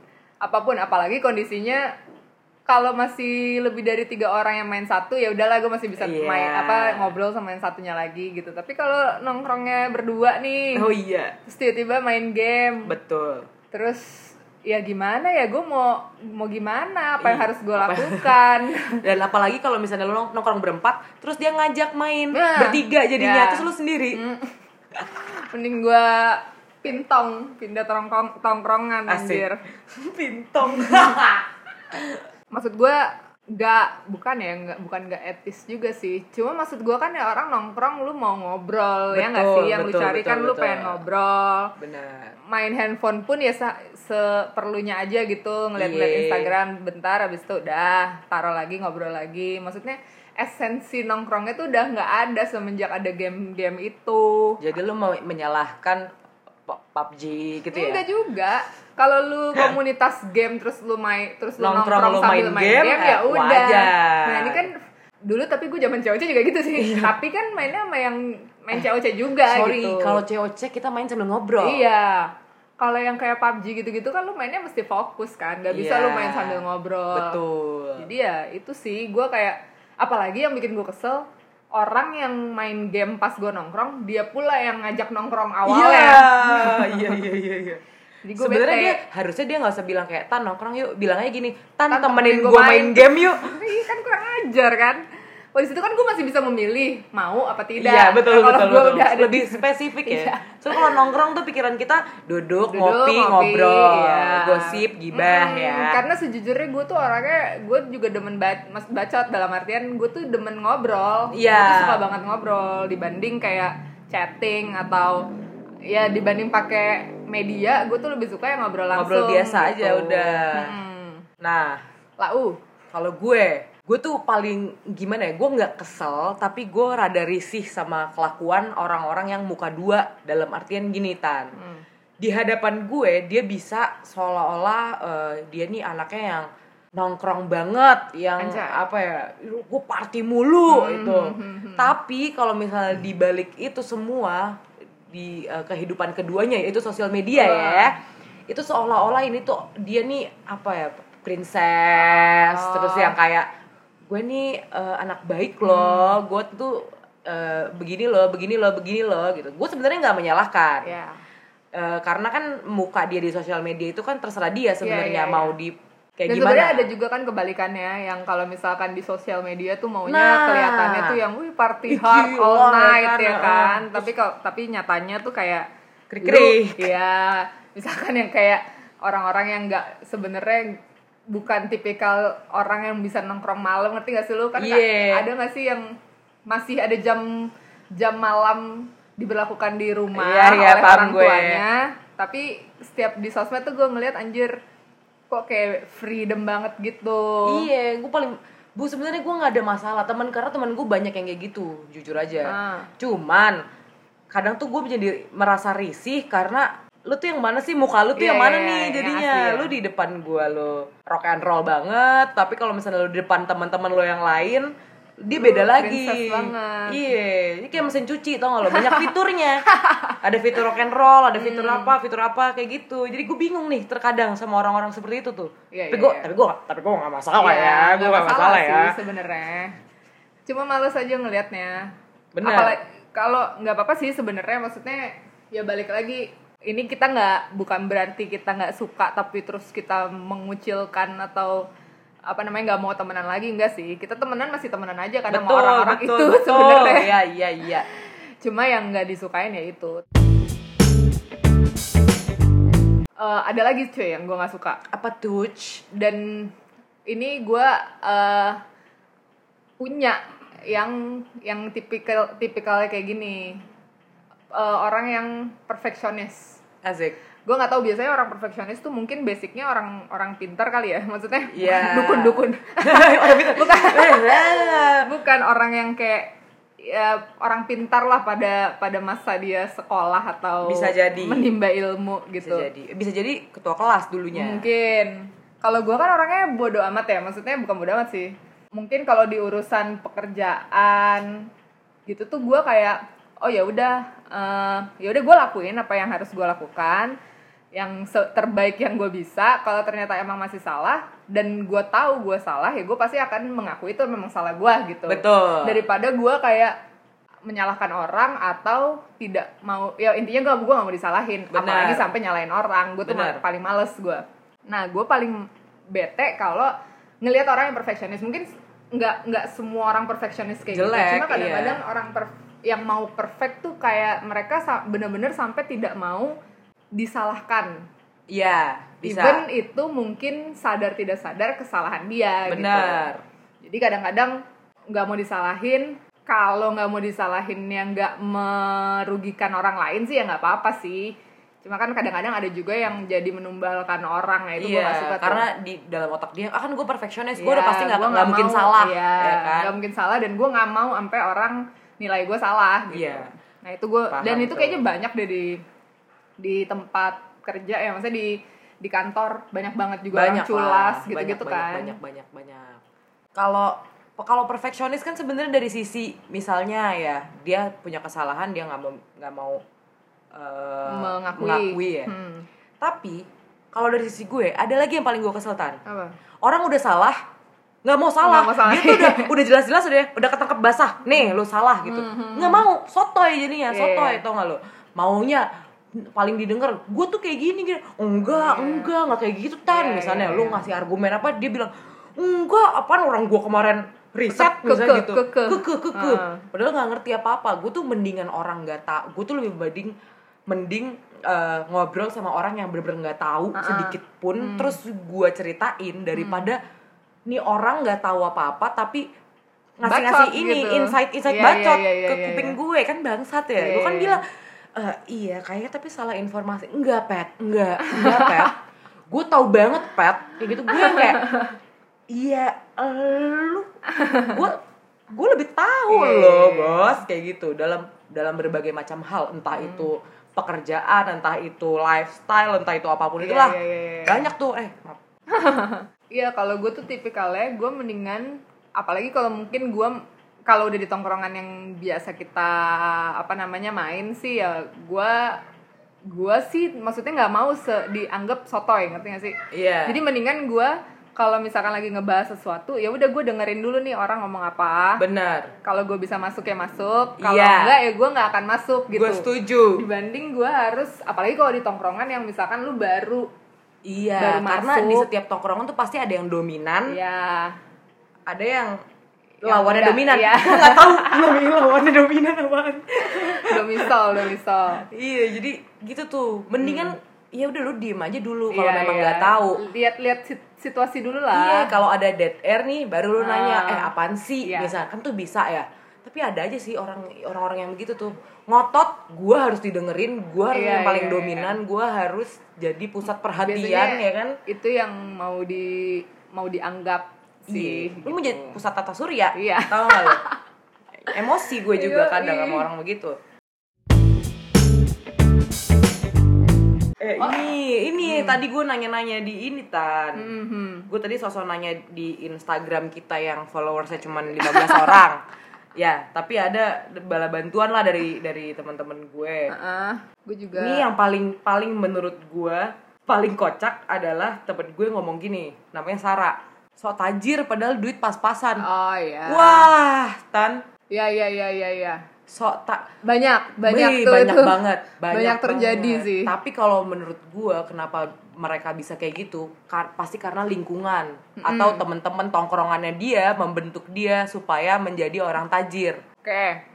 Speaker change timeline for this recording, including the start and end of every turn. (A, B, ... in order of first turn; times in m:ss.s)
0:00.4-0:01.9 A
0:02.7-0:10.8 A
0:06.0-0:07.1 B
0:10.7-0:11.4 B
0:11.4-0:12.9 A
0:12.8-0:13.5 B
0:13.7-0:19.0 A
0:17.2-0:18.3 B
0:19.0-0:24.2 B
0:22.3-0:29.6 A
0:29.1-0:32.2 B
0:30.6-0:31.2 A
0:32.5-0:41.8 A
0:39.1-0:41.0 B
0:41.8-0:42.3 B
0:42.5-0:54.6 A
0:45.8-0:46.5 B
0:54.6-0:56.1 B
0:56.7-0:58.0 B
0:57.7-1:04.7 A
1:01.6-1:04.7 B
1:05.2-1:10.2 A
1:06.8-1:07.1 B
1:09.5-1:11.9 B
1:11.6-1:17.4 A
1:15.7-1:18.1 B
1:18.0-1:27.2 A
1:25.7-1:27.8 B
1:28.2-1:29.0 A
1:28.4-1:33.6 B
1:31.9-1:35.0 A
1:35.5-1:41.0 A
1:37.8-1:46.0 B
1:42.7-1:55.3 A
1:51.3-1:52.0 B
1:55.9-2:01.2 A
1:58.9-2:00.8 B
2:01.4-2:01.8 B
2:02.2-2:02.6 A
2:02.9-2:11.5 B
2:11.6-2:11.8 A
2:12.2-2:28.0 B
2:18.4-2:18.8 A
2:20.7-2:21.9 A
2:27.4-2:27.9 A
2:28.5-2:33.5 B
2:32.0-2:33.2 A
2:34.1-2:40.9 B
2:35.6-2:36.1 A
2:40.8-2:41.2 A
2:41.7-2:46.9 B
2:44.8-2:45.5 A
2:46.3-2:55.7 A
2:50.0-2:51.2 B
2:51.9-2:54.1 B
2:56.1-2:56.8 B
2:56.2-3:05.9 A
3:04.6-3:05.2 B
3:06.5-3:14.6 A
3:10.1-3:11.6 B
3:15.3-3:17.7 A
3:17.4-3:23.6 B
3:22.4-3:22.9 A
3:24.3-3:39.6 B
3:28.2-3:29.7 A
3:35.3-3:37.0 A
3:38.6-3:39.1 A
3:39.7-3:40.2 A
3:40.2-3:49.0 B
3:41.4-3:41.9 A
3:45.7-3:46.3 A
3:47.4-3:49.7 A
3:50.5-4:01.6 A
3:52.3-3:52.8 B
4:02.3-4:07.1 A
4:05.3-4:07.8 B
4:08.4-4:10.0 A
4:13.2-4:14.8 A
4:14.9-4:15.8 B
4:15.9-4:16.5 A
4:17.1-4:18.6 A
4:19.8-4:23.6 A
4:24.5-4:26.6 A
4:26.8-4:27.2 B
4:27.4-4:42.7 A
4:31.5-4:35.1 B
4:40.6-4:41.5 B
4:42.4-4:44.6 B
4:44.3-4:51.5 A
4:52.1-4:57.2 A
4:57.7-5:06.7 A
5:05.1-5:05.8 B
5:07.4-5:26.3 A
5:11.5-5:12.1 B
5:13.0-5:13.4 B
5:20.7-5:21.8 B
5:26.9-5:27.8 A
5:28.3-5:29.4 B
5:29.0-5:33.1 A
5:32.5-5:33.2 B
5:33.6-5:34.4 A
5:34.9-5:45.4 A
5:44.6-5:49.7 B
5:47.4-5:55.6 A
5:52.9-5:53.3 B
5:54.1-5:54.8 B
5:56.4-6:02.0 A
6:00.1-6:02.8 B
6:03.3-6:09.6 B
6:10.3-6:12.1 B
6:10.9-6:12.4 A
6:12.8-6:15.8 B
6:15.8-6:16.1 A
6:16.4-6:17.2 B
6:17.8-6:39.9 B
6:18.2-6:19.3 A
6:21.8-6:22.6 A
6:23.7-6:24.2 A
6:28.3-6:28.9 A
6:29.7-6:30.7 A
6:34.3-6:36.4 A
6:40.5-6:46.6 B
6:43.5-6:44.8 A
6:46.1-6:46.5 A
6:47.3-6:49.1 B
6:49.8-6:58.6 B
6:49.8-6:52.6 A
6:53.6-6:54.2 A
6:57.8-6:58.5 A
6:59.1-7:01.3 B
7:00.7-7:01.5 A
7:02.1-7:03.7 B
7:03.9-7:04.4 A
7:04.3-7:15.0 B
7:05.9-7:07.0 A
7:09.5-7:09.9 A
7:13.2-7:14.3 A
7:15.3-7:25.4 A
7:26.1-7:35.0 A
7:29.5-7:30.0 B
7:35.0-7:35.5 B
7:35.6-7:43.3 A
7:37.2-7:37.8 B
7:38.9-7:39.8 B
7:43.8-7:47.0 B
7:44.2-7:45.1 A
7:46.9-7:47.6 A
7:48.3-7:48.8 B
7:49.4-7:51.4 A
7:49.4-7:53.9 B
7:53.0-7:54.8 A
7:54.8-7:59.6 B
7:56.6-7:56.9 A
7:58.5-8:01.8 A
8:01.3-8:14.4 B
8:03.2-8:03.9 A
8:04.4-8:04.7 A
8:10.5-8:11.6 A
8:13.4-8:18.6 A
8:17.5-8:20.2 B
8:19.3-8:20.4 A
8:21.0-8:23.2 B
8:21.1-8:22.7 A
8:27.0-8:30.3 B
8:28.0-8:28.4 A
8:30.2-8:30.9 A
8:30.9-8:35.2 B
8:34.4-8:35.0 A
8:35.8-8:39.5 B
8:39.5-8:40.8 A
8:40.5-8:48.6 B
8:48.6-8:49.7 A
8:49.3-8:50.6 B
8:50.9-8:52.0 A
8:52.3-8:52.9 B
8:53.0-8:56.3 A
8:53.6-9:06.0 B
9:01.4-9:01.8 A
9:06.2-9:06.6 A